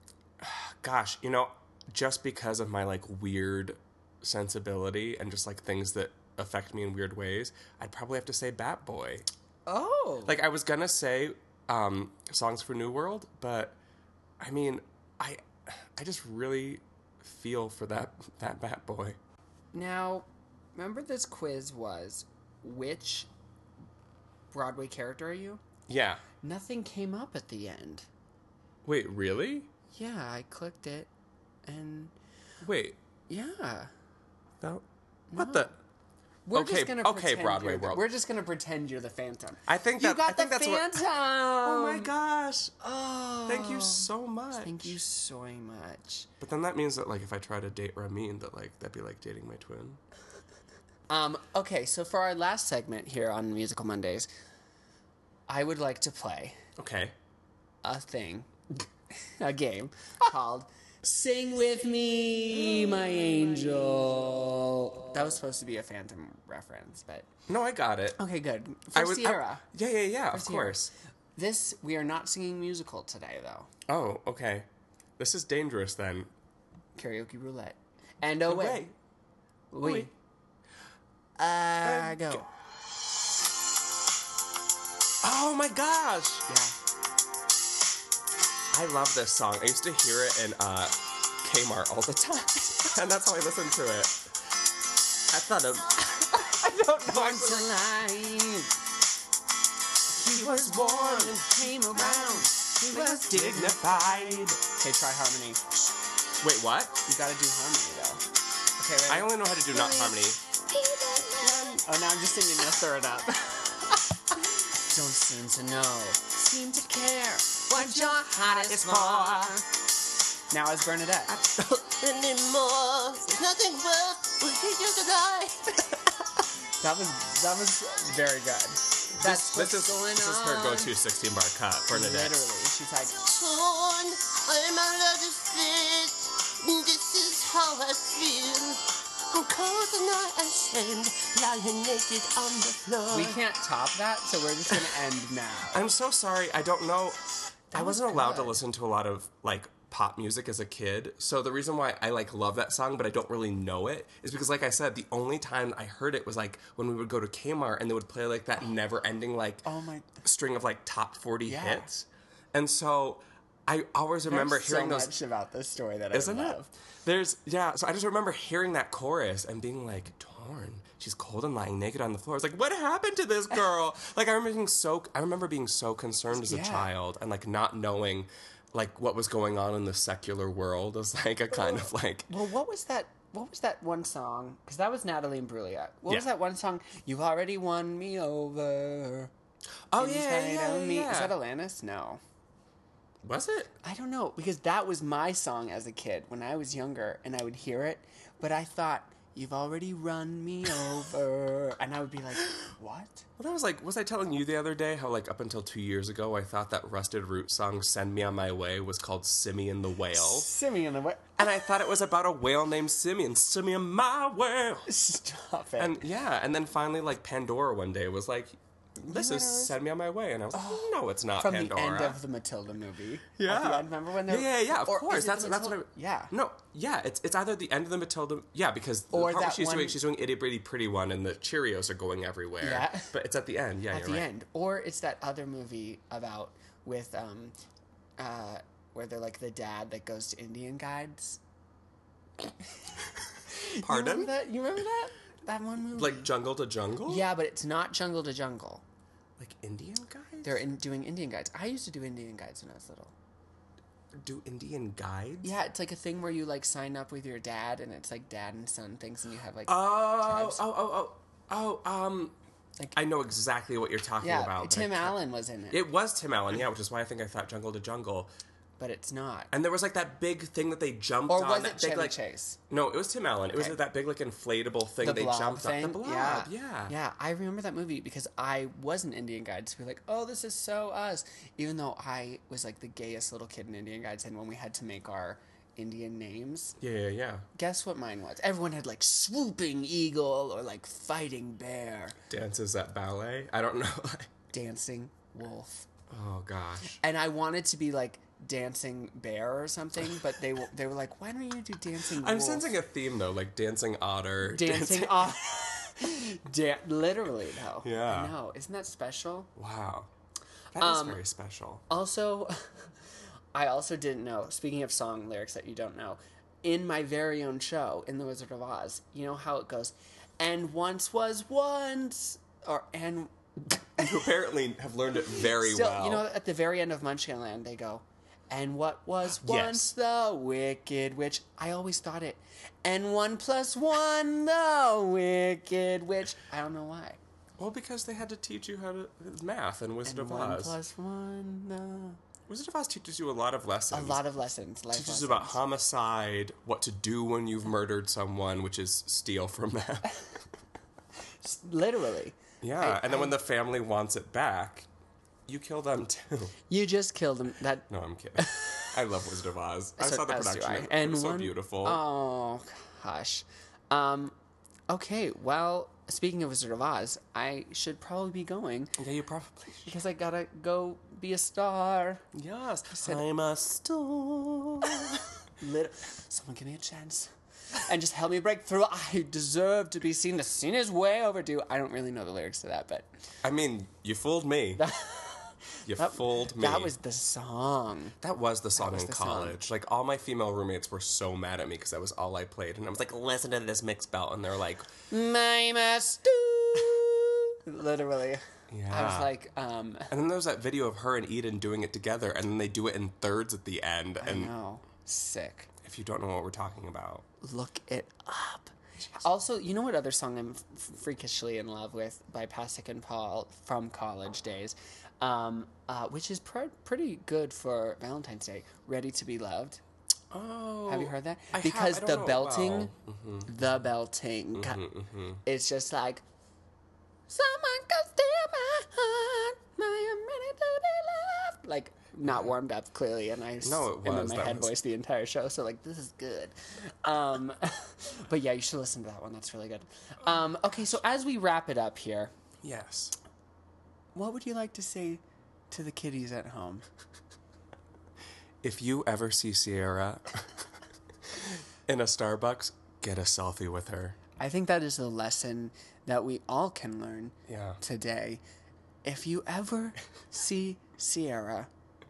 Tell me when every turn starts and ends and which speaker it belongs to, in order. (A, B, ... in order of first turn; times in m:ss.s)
0:00.4-0:09.3 A
0:09.7-0:10.4 B
0:10.3-0:13.8 A
0:14.4-0:19.2 A
0:19.7-0:23.3 B
0:24.5-0:25.6 B
0:25.9-0:26.2 A
0:26.4-0:28.1 B
0:28.8-0:29.7 A
0:29.9-0:31.1 B
0:31.7-0:32.1 B
0:32.6-0:33.0 A
0:33.3-0:33.9 B
0:35.3-0:35.8 B
0:35.4-0:35.7 A
0:36.5-0:42.1 B
0:36.5-0:38.0 A
0:39.7-0:41.0 A
0:41.6-0:42.8 A
0:42.8-0:46.3 B
0:43.5-0:45.0 A
0:46.4-0:50.0 A
0:51.1-0:54.3 B
0:55.5-0:56.6 B
0:56.8-0:57.2 A
0:57.8-1:07.3 B
1:07.5-1:08.2 A
1:08.2-1:09.6 B
1:08.9-1:10.9 A
1:10.3-1:13.7 B
1:13.9-1:14.7 A
1:15.2-1:16.3 A
1:17.0-1:18.9 B
1:18.4-1:19.0 A
1:19.7-1:20.1 B
1:19.8-1:20.1 A
1:21.4-1:22.5 B
1:21.8-1:22.5 A
1:25.2-1:26.4 A
1:26.5-1:26.8 B
1:28.7-1:34.3 A
1:35.3-1:37.7 A
1:36.4-1:38.7 B
1:40.1-1:45.6 B
1:40.3-1:44.6 A
1:46.4-1:47.0 A
1:47.0-1:48.2 B
1:48.8-1:50.2 B
1:49.1-1:50.4 A
1:50.7-1:59.7 B
1:51.4-1:51.8 A
1:58.1-1:59.5 C
1:58.7-1:59.4 A
2:00.5-2:01.4 B
2:01.3-2:05.8 C
2:06.8-2:10.9 B
2:09.2-2:12.4 A
2:11.9-2:13.2 B
2:13.2-2:23.4 C
2:23.1-2:25.8 B
2:25.7-2:27.2 A
2:27.7-2:28.6 B
2:27.7-2:39.7 A
2:39.6-2:40.2 B
2:40.2-2:45.1 A
2:41.5-2:41.9 B
2:44.2-2:46.7 B
2:46.1-3:02.3 A
2:56.3-2:56.9 B
3:02.3-3:09.3 B
3:09.9-3:11.3 A
3:10.0-3:12.2 B
3:13.2-3:13.7 A
3:13.8-3:23.3 B
3:23.4-3:30.5 A
3:30.1-3:31.5 B
3:31.4-3:34.9 A
3:34.9-3:36.0 B
3:35.8-3:42.2 A
3:39.0-3:39.8 B
3:40.5-3:46.3 B
3:43.4-3:54.3 A
3:49.1-3:50.0 B
3:52.6-3:53.1 B
3:53.9-3:57.6 B
3:58.2-4:01.4 B
4:03.5-4:06.3 B
4:03.7-4:04.3 A
4:06.0-4:07.3 A
4:07.0-4:08.8 B
4:09.4-4:10.6 A
4:10.4-4:13.1 B
4:14.2-4:15.5 A
4:15.4-4:20.6 B
4:19.7-4:22.4 A
4:22.9-4:25.2 A
4:24.2-4:25.8 B
4:25.7-4:28.3 A
4:28.8-4:29.5 B
4:29.5-4:32.2 A
4:31.3-4:32.6 B
4:32.7-4:36.9 A
4:33.5-4:33.8 B
4:35.0-4:46.8 B
4:46.8-4:47.5 A
4:47.6-4:52.2 B
4:52.3-4:54.3 A
4:54.5-4:55.9 B
4:56.1-4:57.0 A
4:57.0-5:02.7 B
5:02.2-5:05.4 A
5:04.4-5:09.5 B
5:07.8-5:08.3 A
5:09.6-5:10.1 A
5:10.7-5:11.8 A
5:10.8-5:11.2 B
5:11.9-5:12.6 B
5:13.5-5:24.3 B
5:24.0-5:26.2 A
5:25.4-5:37.2 B
5:29.3-5:29.9 A
5:37.6-5:40.8 A
5:40.0-5:42.2 B
5:42.5-5:44.2 A
5:43.9-5:45.6 B
5:44.9-5:50.3 A
5:51.4-5:53.4 B
5:52.6-5:54.9 A
5:55.5-5:56.6 A
5:56.7-5:59.0 B
5:57.9-6:02.0 A
6:00.0-6:04.4 B
6:04.9-6:09.0 B
6:09.0-6:09.9 A
6:09.8-6:12.2 B
6:12.3-6:15.3 A
6:15.6-6:17.3 B
6:17.8-6:23.1 B
6:23.4-6:24.9 A
6:24.8-6:28.2 B
6:25.8-6:27.0 A
6:28.2-6:34.9 A
6:28.8-6:29.6 B
6:35.1-6:40.1 B
6:38.7-6:39.3 A
6:40.1-6:44.5 A
6:44.2-6:45.7 B
6:45.8-6:47.2 A
6:47.4-6:59.8 B
7:00.3-7:03.7 A
7:00.9-7:02.9 B
7:03.4-7:04.9 B
7:04.5-7:05.4 A
7:05.4-7:06.2 B
7:07.3-7:22.3 B
7:13.6-7:14.7 A
7:22.6-7:23.2 A
7:24.1-7:26.8 B
7:28.6-7:30.5 A
7:31.9-7:34.2 A
7:34.4-7:38.4 B
7:37.5-7:37.8 A
7:39.0-7:41.7 B